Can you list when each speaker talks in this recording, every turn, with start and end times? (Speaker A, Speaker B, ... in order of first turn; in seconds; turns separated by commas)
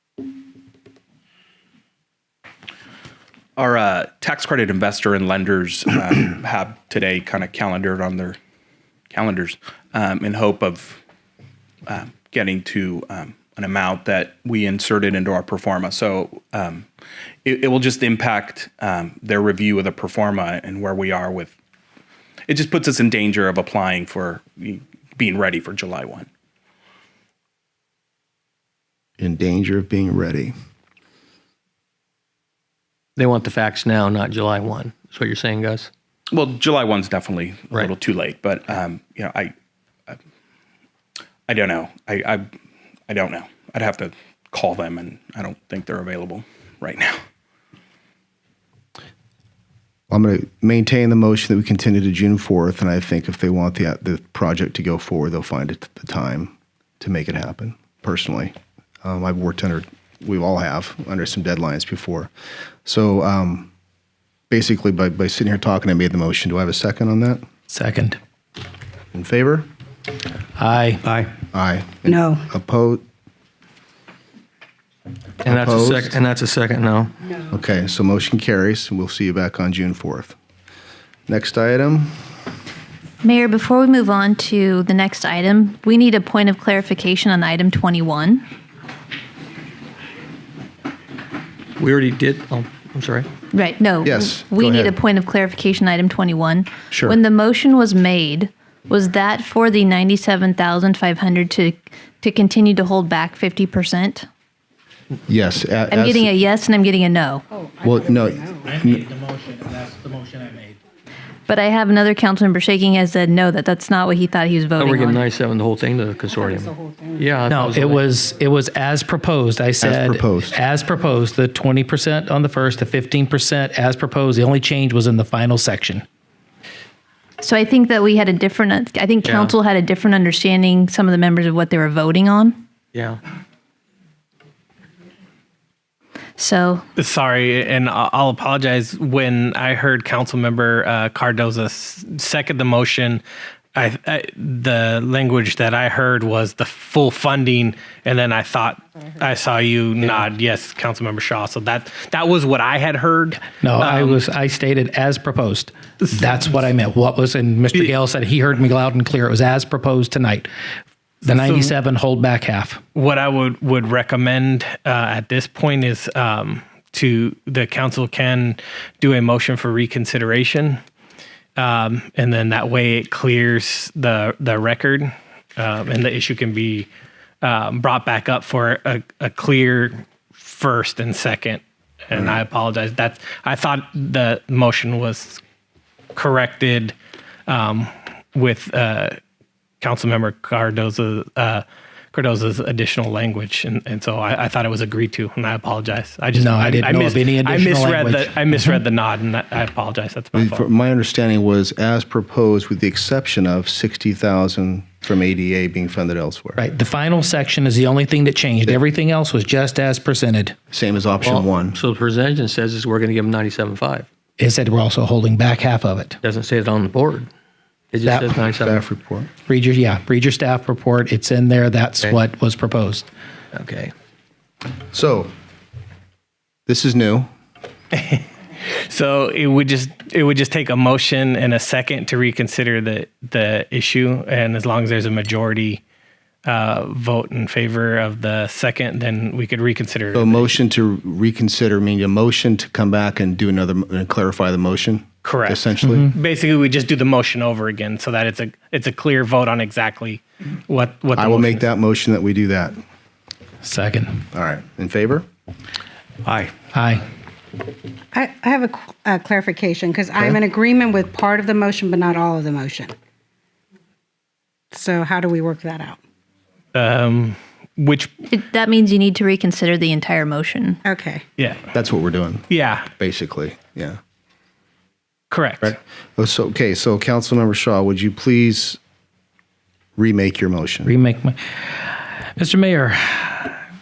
Speaker A: 3.6-8.4, Speaker A: 9.1-11.0, Speaker A: 11.9-16.9, Speaker A: 17.4-21.6, Speaker A: 22.5-26.3, Speaker B: 29.2-30.5, Speaker C: 33.2-35.9, Speaker A: 36.3-39.5, Speaker A: 41.5-42.5, Speaker A: 43.1-47.2, Speaker B: 50.1-62.3, Speaker B: 62.9-63.7, Speaker B: 64.5-67.4, Speaker D: 67.7-68.2, Speaker B: 69.1-69.7, Speaker D: 70.6-71.0, Speaker B: 71.5-73.0, Speaker E: 72.1-72.5, Speaker B: 75.5-76.2, Speaker C: 75.5-77.2, Speaker B: 77.5-80.4, Speaker B: 81.3-82.1, Speaker F: 83.2-88.4, Speaker C: 91.8-93.3, Speaker F: 93.5-104.3, Speaker B: 94.0-95.0, Speaker B: 96.9-97.2, Speaker B: 105.3-106.3, Speaker F: 105.9-107.4, Speaker E: 107.5-108.7, Speaker B: 107.8-109.0, Speaker D: 108.7-110.8, Speaker F: 111.5-115.2, Speaker C: 114.8-118.1, Speaker E: 116.3-117.4, Speaker D: 117.5-126.0, Speaker B: 119.8-120.6, Speaker F: 127.4-132.6, Speaker C: 129.2-129.5, Speaker C: 132.9-133.2, Speaker F: 136.4-136.8, Speaker G: 137.0-143.2, Speaker G: 143.8-154.2, Speaker D: 153.6-160.5, Speaker D: 161.2-162.8, Speaker G: 161.3-161.8, Speaker G: 162.9-170.8, Speaker G: 171.6-176.9, Speaker G: 177.4-185.4, Speaker B: 182.1-182.4, Speaker G: 186.2-186.9, Speaker G: 187.5-189.2, Speaker G: 189.8-200.7, Speaker D: 196.3-198.8, Speaker B: 200.3-206.6, Speaker D: 206.6-210.6, Speaker B: 210.7-211.8, Speaker C: 211.2-214.1, Speaker D: 214.4-216.2, Speaker C: 216.2-217.3, Speaker C: 217.9-218.8, Speaker D: 218.0-218.4, Speaker B: 218.5-219.3, Speaker D: 219.5-223.1, Speaker C: 223.5-223.9, Speaker B: 224.9-225.3, Speaker B: 226.7-227.3, Speaker G: 227.9-228.3, Speaker G: 228.9-235.8, Speaker G: 236.4-240.5, Speaker B: 240.1-246.1, Speaker G: 245.2-251.6, Speaker D: 245.9-246.1, Speaker B: 251.2-252.8, Speaker D: 253.6-254.2, Speaker B: 254.3-255.3, Speaker D: 256.3-257.1, Speaker E: 258.1-262.9, Speaker E: 264.7-266.0, Speaker G: 266.7-268.1, Speaker F: 268.3-270.8, Speaker E: 270.8-271.2, Speaker B: 271.7-272.5, Speaker G: 272.5-272.9, Speaker B: 273.0-274.0, Speaker G: 275.3-275.8, Speaker B: 275.6-278.8, Speaker B: 280.0-280.9, Speaker D: 280.9-281.4, Speaker D: 282.4-283.6